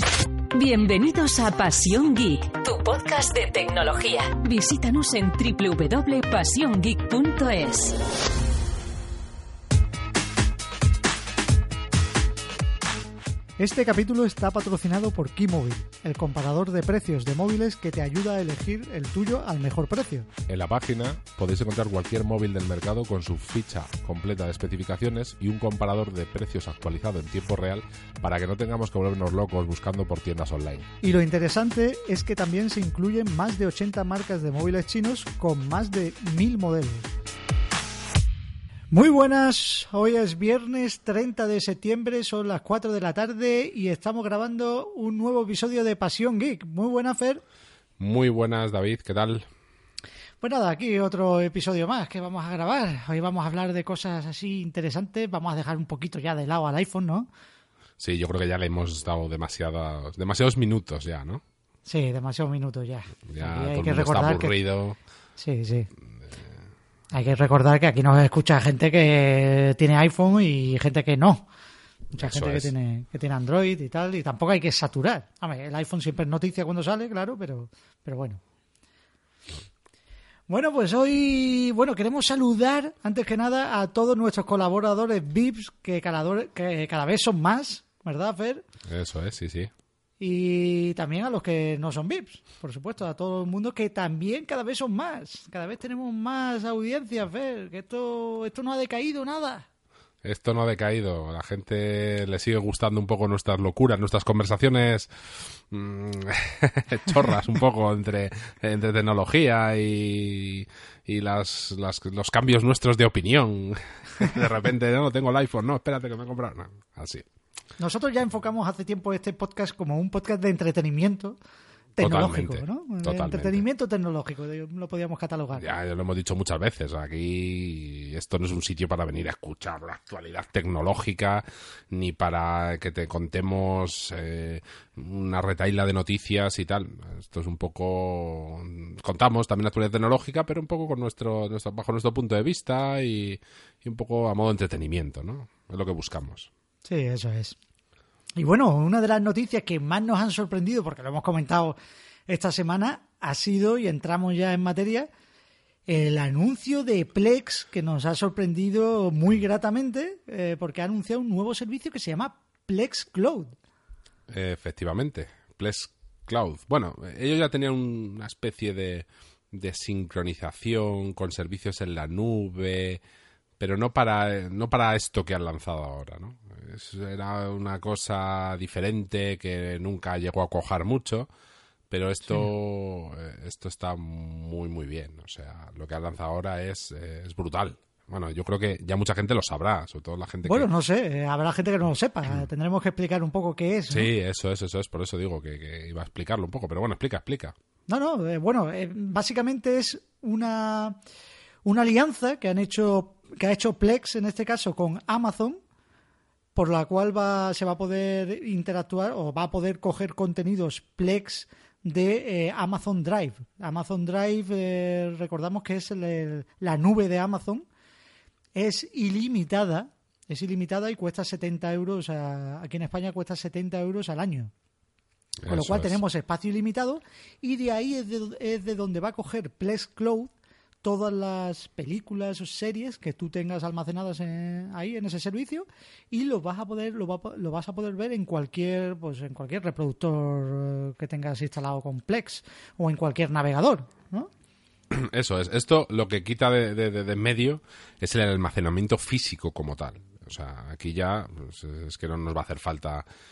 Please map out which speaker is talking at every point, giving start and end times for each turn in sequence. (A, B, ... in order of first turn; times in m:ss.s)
0:00.5-0:08.0 A
0:13.6-0:20.3 B
0:20.5-0:30.9 C
0:31.0-0:37.1 B
0:38.9-0:47.4 B
0:48.0-0:49.5 C
0:50.4-0:57.3 B
0:58.0-1:01.4 C
1:01.8-1:04.5 B
1:03.3-1:05.0 C
1:05.4-1:05.9 B
1:07.1-1:11.5 B
1:12.1-1:18.4 B
1:12.2-1:12.7 C
1:20.5-1:28.6 B
1:28.8-1:29.7 C
1:30.2-1:39.6 B
1:40.2-1:57.2 C
1:57.8-2:01.4 B
2:02.0-2:03.6 C
2:02.0-2:05.6 B
2:05.5-2:26.5 C
2:26.8-2:27.6 B
2:28.4-2:35.1 B
2:35.9-2:43.5 B
2:44.3-2:53.0 C
2:53.6-3:01.3 C
3:01.9-3:10.7 C
3:10.4-3:14.1 B
3:13.9-3:17.5 C
3:17.9-3:21.0 B
3:21.6-3:25.6 B
3:26.5-3:37.6 B
3:38.5-3:44.5 B
3:45.4-3:46.0 C
3:45.5-3:50.3 B
3:50.8-4:04.3 B
4:04.9-4:13.0 C